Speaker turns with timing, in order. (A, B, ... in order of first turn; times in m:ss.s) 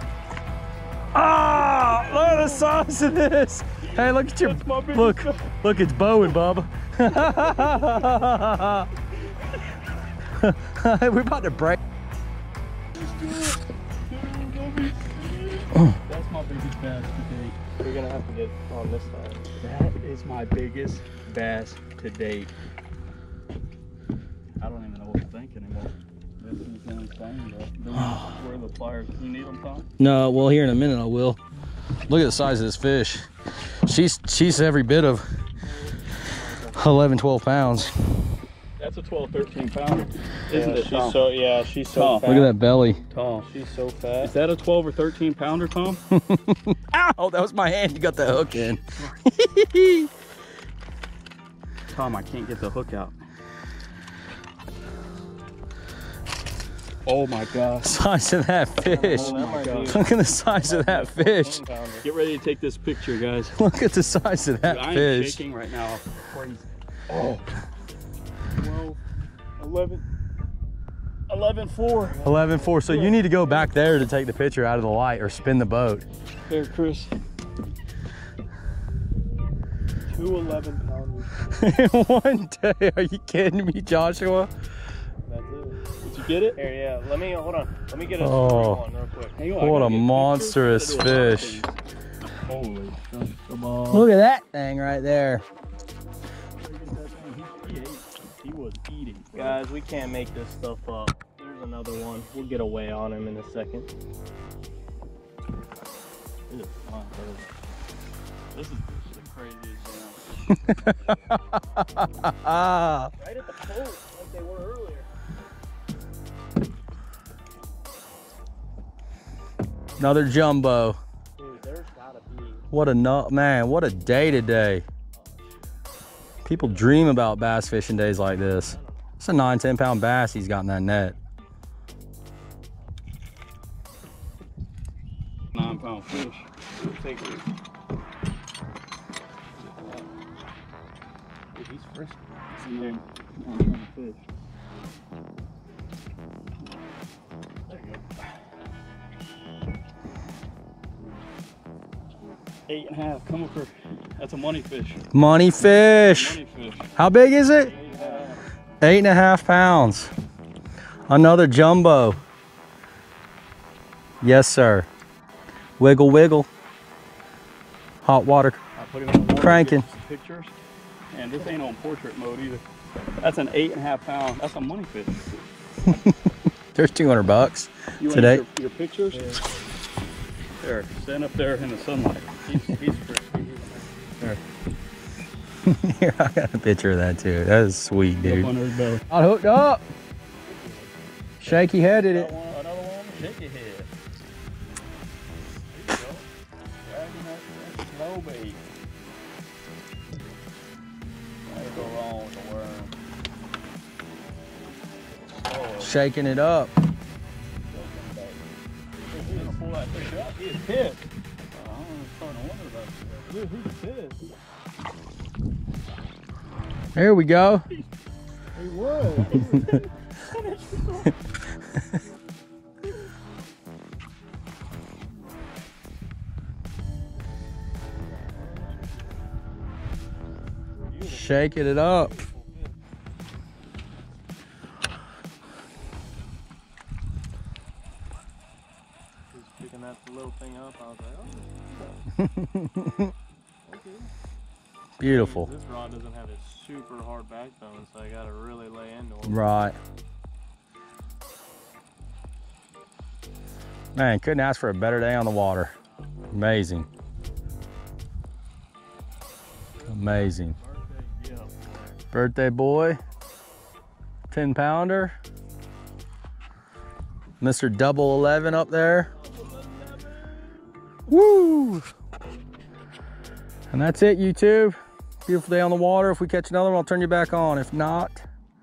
0:01.1-0:08.9 A
0:01.6-0:02.7 B
0:03.8-0:05.5 B
0:07.1-0:08.0 B
0:10.4-0:11.8 A
0:12.9-0:17.6 B
0:17.8-0:19.5 C
0:19.6-0:22.5 B
0:24.6-0:29.9 B
0:30.0-0:31.4 A
0:32.1-0:33.3 A
0:33.8-0:35.3 A
0:35.7-0:36.8 C
0:36.7-0:37.9 A
0:38.8-0:41.2 B
0:40.5-0:42.5 C
0:41.9-0:42.4 B
0:42.2-0:43.0 A
0:43.1-0:43.5 B
0:43.4-0:44.3 C
0:44.2-0:46.0 B
0:46.1-0:50.1 A
0:48.4-0:49.2 B
0:51.9-0:53.1 B
0:57.0-0:58.0 B
0:57.8-1:01.6 A
0:58.8-1:02.1 C
0:59.0-1:00.1 B
1:02.0-1:03.6 B
1:03.6-1:05.4 A
1:04.6-1:07.4 B
1:08.6-1:09.0 C
1:09.6-1:10.0 C
1:11.3-1:12.2 B
1:12.1-1:13.7 C
1:12.2-1:16.0 A
1:16.5-1:17.1 B
1:20.1-1:21.7 C
1:21.6-1:24.5 A
1:25.2-1:25.8 C
1:26.0-1:26.6 B
1:26.5-1:29.5 C
1:28.2-1:28.8 A
1:29.4-1:31.7 B
1:29.5-1:31.6 A
1:32.4-1:34.1 B
1:33.9-1:35.4 A
1:36.6-1:39.6 B
1:39.3-1:43.9 C
1:46.5-1:47.4 B
1:48.5-1:50.9 B
1:51.8-1:53.1 A
1:53.2-1:55.0 C
2:00.0-2:01.0 A
2:01.4-2:02.6 C
2:02.7-2:04.8 A
2:05.2-2:05.4 C
2:06.4-2:11.1 A
2:06.5-2:07.0 C
2:08.4-2:08.9 C
2:15.5-2:16.4 B
2:16.8-2:17.4 C
2:21.6-2:22.0 B
2:22.6-2:24.2 B
2:22.6-2:22.9 C
2:27.7-2:28.2 B
2:32.7-2:35.0 B
2:35.1-2:36.4 A
2:36.0-2:36.9 B
2:37.0-2:37.7 A
2:37.6-2:38.4 C
2:37.7-2:38.4 B
2:38.8-2:40.1 A
2:41.1-2:42.2 A
2:44.2-2:44.9 A
2:45.8-2:46.5 A
2:48.0-2:48.6 A
2:48.8-2:50.5 B
2:49.3-2:49.8 A
2:51.1-2:52.6 B
2:53.2-2:55.4 B
2:55.9-2:56.1 A
2:56.7-2:58.4 A
2:58.0-2:59.4 B
3:00.6-3:03.7 B
3:05.6-3:08.5 A
3:08.2-3:09.0 B
3:09.1-3:09.8 A
3:10.5-3:10.7 C
3:11.4-3:12.3 A
3:11.5-3:13.9 B
3:15.7-3:16.2 C
3:16.8-3:18.6 B
3:21.4-3:22.9 B
3:25.4-3:26.0 B
3:25.8-3:26.7 A
3:27.7-3:28.4 B
3:29.0-3:29.6 C
3:29.2-3:33.3 B
3:33.3-3:34.2 C
3:36.9-3:37.6 A
3:38.6-3:39.8 C
3:39.1-3:41.1 B
3:48.3-3:48.8 C
3:50.9-3:52.7 C
3:51.0-3:52.1 A
3:59.3-4:02.0 C
4:02.2-4:03.1 A
4:03.7-4:04.1 C
4:05.0-4:05.5 A
4:05.0-4:09.6 C
4:09.2-4:09.8 A
4:13.9-4:15.7 A
4:16.3-4:16.9 A
4:19.8-4:22.0 B
4:19.9-4:20.5 A
4:22.1-4:23.0 A
4:24.3-4:25.1 A
4:27.4-4:29.1 A
4:29.2-4:30.5 B
4:31.1-4:31.8 A
4:33.7-4:38.2 A